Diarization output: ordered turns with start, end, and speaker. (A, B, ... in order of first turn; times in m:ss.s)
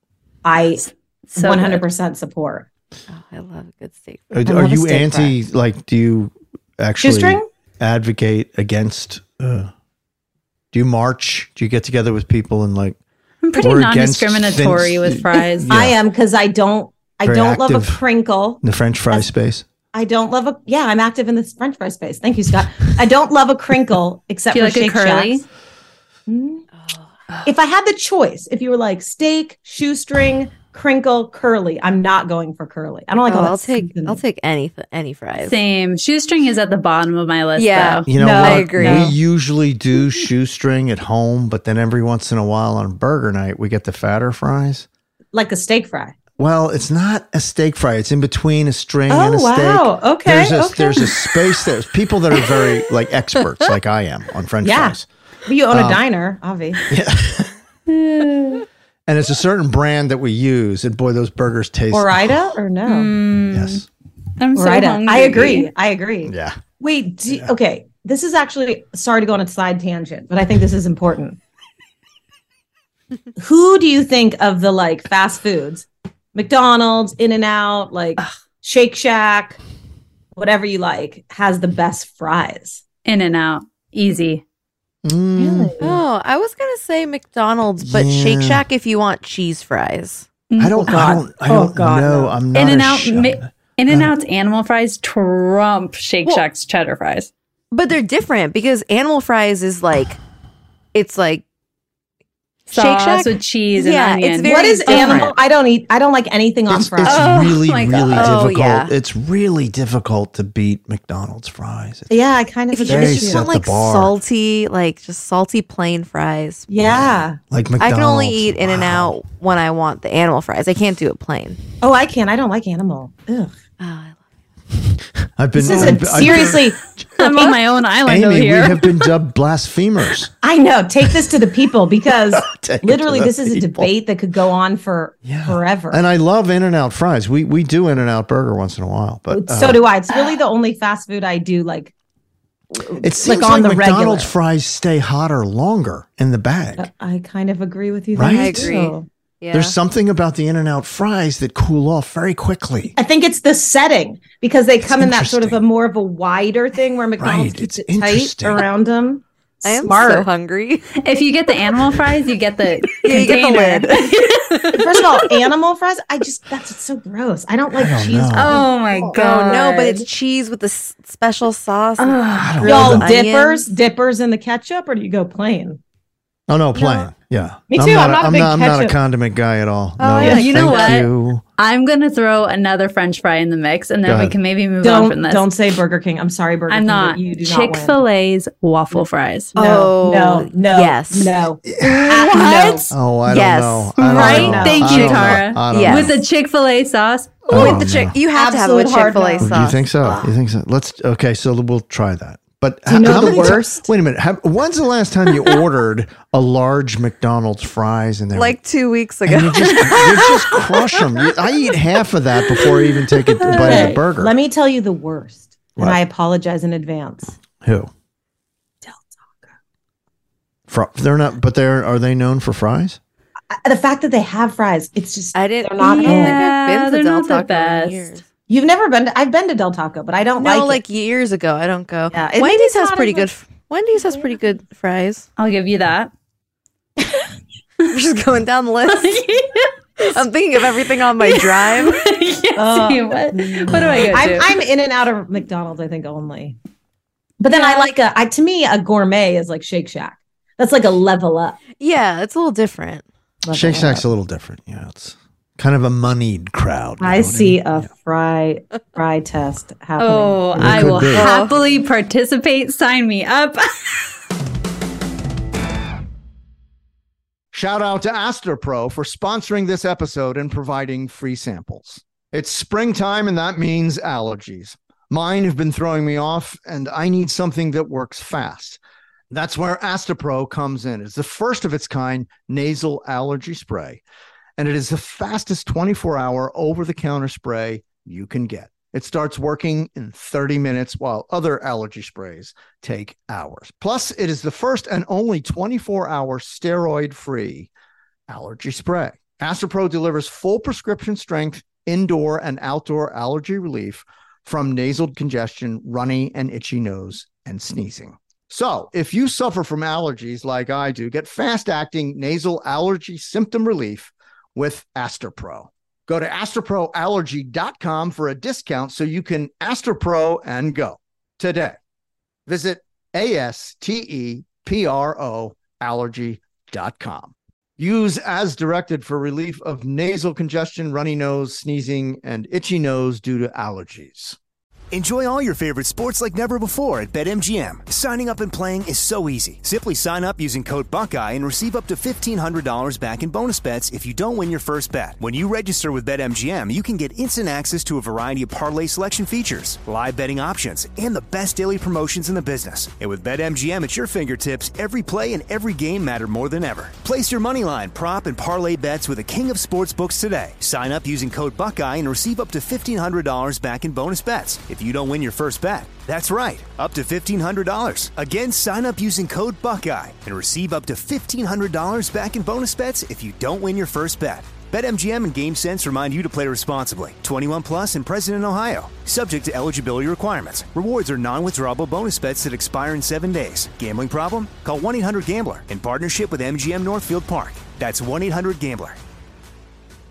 0:00.4-0:02.7 A
0:01.3-0:01.8 B
0:03.1-0:04.4 C
0:04.3-0:09.7 D
0:04.4-0:05.4 A
0:07.0-0:07.5 A
0:10.7-0:13.0 D
0:13.4-0:15.7 B
0:13.6-0:16.0 D
0:15.6-0:19.3 A
0:17.2-0:18.0 D
0:18.6-0:19.7 D
0:19.9-0:25.4 A
0:24.5-0:25.4 B
0:26.3-0:26.6 A
0:27.4-0:34.2 A
0:33.2-0:35.6 C
0:35.4-0:38.1 B
0:37.6-0:39.1 C
0:38.1-0:44.9 D
0:38.1-0:39.1 A
0:45.3-0:46.2 A
0:46.4-0:55.1 D
0:49.1-0:51.3 A
0:54.6-0:56.9 A
0:55.7-0:56.0 D
0:56.9-0:57.5 D
0:57.9-0:58.6 B
0:59.1-1:02.4 D
1:01.9-1:03.1 A
1:02.9-1:03.8 B
1:03.5-1:03.9 D
1:04.4-1:05.7 B
1:04.6-1:11.4 A
1:06.2-1:06.6 D
1:07.3-1:07.5 D
1:13.4-1:19.6 A
1:20.4-1:22.8 A
1:23.0-1:24.4 B
1:25.0-1:25.8 D
1:25.4-1:26.0 A
1:25.8-1:30.3 C
1:27.8-1:28.6 D
1:30.5-1:31.2 B
1:30.6-1:34.1 D
1:30.8-1:32.4 A
1:32.5-1:37.3 B
1:37.7-1:40.2 C
1:40.9-1:41.4 C
1:42.7-1:45.4 C
1:42.7-1:45.3 B
1:44.5-1:47.4 A
1:46.7-1:52.1 D
1:47.0-1:48.5 B
1:48.1-1:48.9 C
1:52.1-1:53.5 A
1:52.7-1:56.7 C
1:52.9-1:54.2 D
1:56.7-1:57.4 A
1:56.9-1:59.2 D
1:57.8-2:01.6 C
2:01.8-2:03.5 A
2:03.8-2:04.2 C
2:04.9-2:07.0 D
2:05.6-2:07.6 A
2:07.2-2:09.0 B
2:08.0-2:10.3 D
2:10.4-2:16.0 A
2:12.3-2:13.9 D
2:15.2-2:19.8 D
2:19.3-2:21.9 A
2:22.7-2:24.3 A
2:23.0-2:26.9 D
2:26.8-2:29.1 A
2:28.2-2:28.7 D
2:28.2-2:29.8 C
2:29.5-2:33.0 D
2:33.0-2:40.3 A
2:34.8-2:35.6 D
2:37.2-2:38.7 D
2:39.6-2:40.9 C
2:41.0-2:44.9 B
2:43.0-2:45.3 C
2:44.8-2:50.1 A
2:47.7-2:48.7 D
2:48.3-2:49.9 B
2:49.1-2:53.7 C
2:52.0-2:52.7 B
2:52.4-2:53.1 D
2:52.6-2:55.8 A
2:56.5-3:01.4 D
2:56.8-2:57.1 A
2:57.7-2:59.0 A
3:00.0-3:01.0 C
3:00.2-3:05.5 B
3:00.2-3:00.7 A
3:04.1-3:04.4 D
3:04.8-3:08.0 A
3:06.7-3:09.6 B
3:09.6-3:11.4 C
3:09.6-3:12.9 A
3:11.7-3:12.4 D
3:12.0-3:14.7 C
3:12.4-3:12.6 B
3:12.9-3:16.2 D
3:14.0-3:15.4 A
3:14.1-3:17.7 B
3:15.6-3:16.1 C
3:17.5-3:20.3 C
3:17.5-3:18.2 D
3:17.6-3:19.6 A
3:19.4-3:28.6 D
3:22.9-3:23.9 A
3:28.4-3:30.1 C
3:29.2-3:34.3 D
3:30.1-3:30.6 A
3:33.4-3:37.4 A
3:33.4-3:34.0 B
3:37.6-3:37.9 D
3:38.8-3:39.5 A
3:40.7-3:43.0 D
3:43.5-3:46.4 A
3:45.3-3:48.2 C
3:45.8-3:48.1 B
3:48.5-3:50.8 A
3:50.4-3:55.3 C
3:52.1-3:53.3 A
3:55.4-3:56.1 B
3:57.8-3:59.3 C
3:58.9-3:59.7 B
4:00.0-4:02.0 C
4:01.2-4:04.6 B
4:02.6-4:06.6 A
4:07.4-4:11.6 A
4:11.8-4:13.0 C
4:13.4-4:14.1 A
4:13.5-4:17.9 D
4:17.0-4:21.6 A
4:20.0-4:24.0 B
4:20.6-4:21.3 D
4:21.1-4:21.5 C
4:27.5-4:38.8 D
4:39.3-4:44.0 D
4:44.6-4:57.7 D
4:58.3-5:21.8 D
5:22.5-5:34.4 D
5:34.9-6:29.0 E